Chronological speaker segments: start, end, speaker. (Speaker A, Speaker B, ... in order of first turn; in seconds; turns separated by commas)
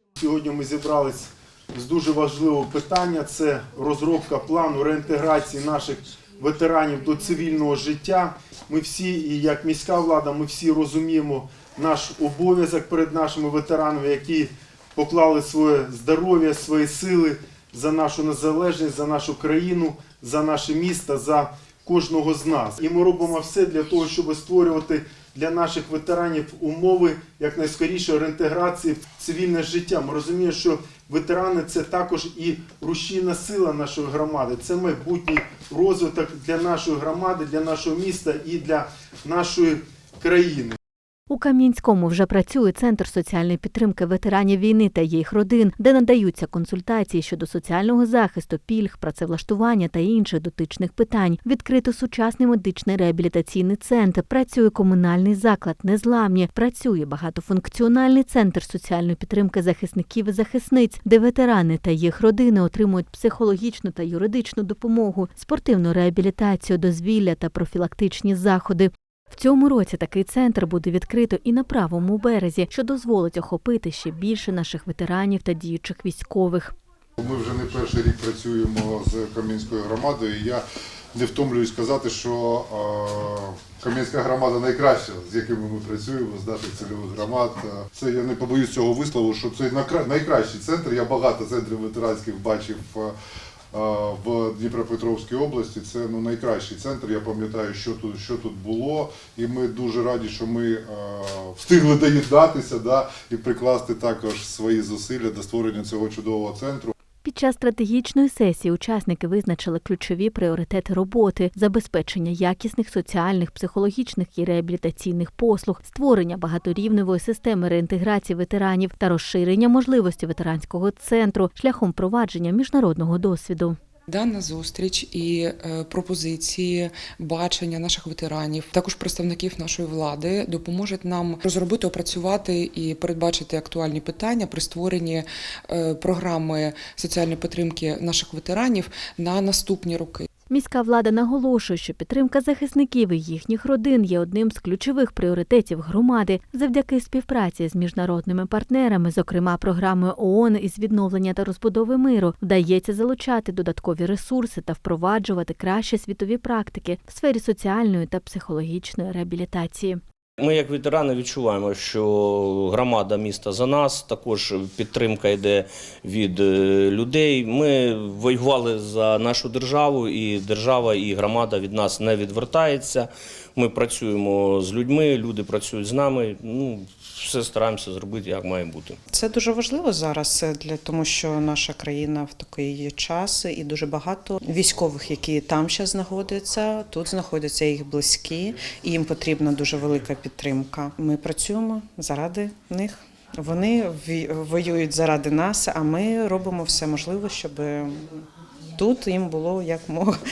Speaker A: 0.2-40.8, Speaker B: 41.3-76.7, Speaker C: 77.2-80.6, Speaker C: 81.1-93.1, Speaker C: 93.7-106.9, Speaker B: 107.2-123.8, Speaker D: 124.1-140.3, Speaker B: 140.5-160.0, Speaker E: 160.4-179.0, Speaker F: 179.1-197.9, Speaker F: 198.8-200.1